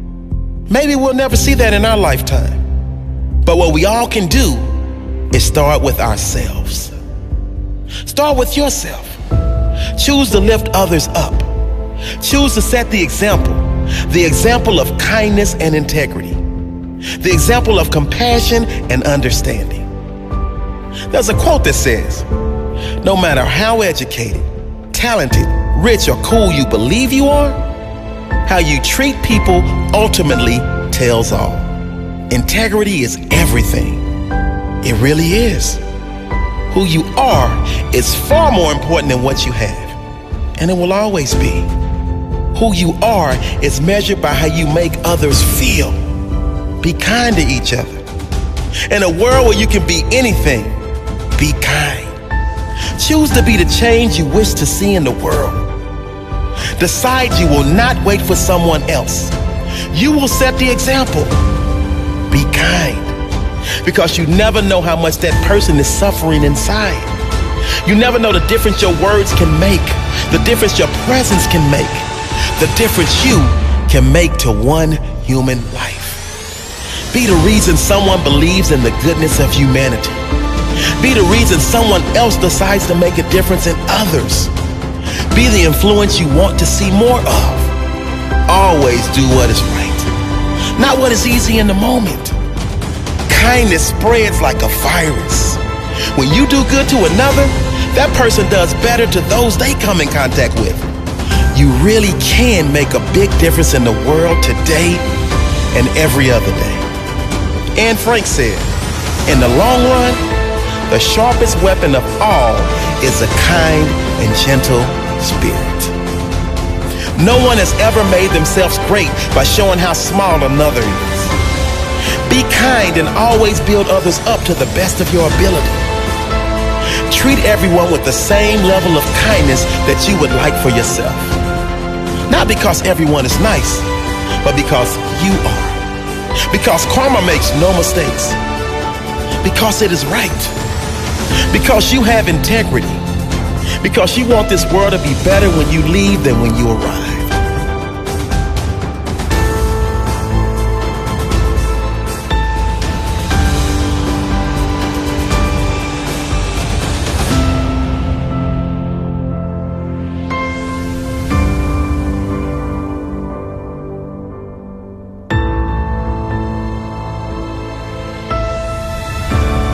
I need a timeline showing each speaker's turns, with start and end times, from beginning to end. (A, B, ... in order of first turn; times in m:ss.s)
0:00.7-0:02.6 A
0:03.4-0:04.7 A
0:05.3-0:06.9 A
0:08.0-0:09.2 A
0:09.9-0:11.5 A
0:12.2-0:16.4 A
0:17.2-0:19.9 A
0:21.1-0:22.3 A
0:23.0-0:27.6 A
0:28.4-0:31.7 A
0:32.3-0:34.0 A
0:34.8-0:35.8 A
0:36.7-0:40.0 A
0:40.6-0:41.7 A
0:42.5-0:46.0 A
0:46.8-0:48.0 A
0:48.9-0:50.8 A
0:51.3-0:52.1 A
0:53.0-0:55.7 A
0:56.8-0:59.3 A
0:59.9-1:01.4 A
1:02.3-1:03.2 A
1:03.8-1:07.1 A
1:07.8-1:16.2 A
1:17.1-1:20.2 A
1:21.0-1:24.5 A
1:25.3-1:27.7 A
1:28.5-1:30.1 A
1:30.8-1:32.4 A
1:33.3-1:35.6 A
1:36.1-1:40.8 A
1:41.5-1:45.0 A
1:45.7-1:46.9 A
1:47.8-1:48.7 A
1:49.3-1:50.2 A
1:50.9-1:56.0 A
1:57.2-2:01.3 A
2:02.2-2:05.9 A
2:07.1-2:11.4 A
2:12.3-2:13.9 A
2:14.4-2:15.8 A
2:16.5-2:18.4 A
2:19.4-2:20.6 A
2:21.5-2:23.0 A
2:23.8-2:27.3 A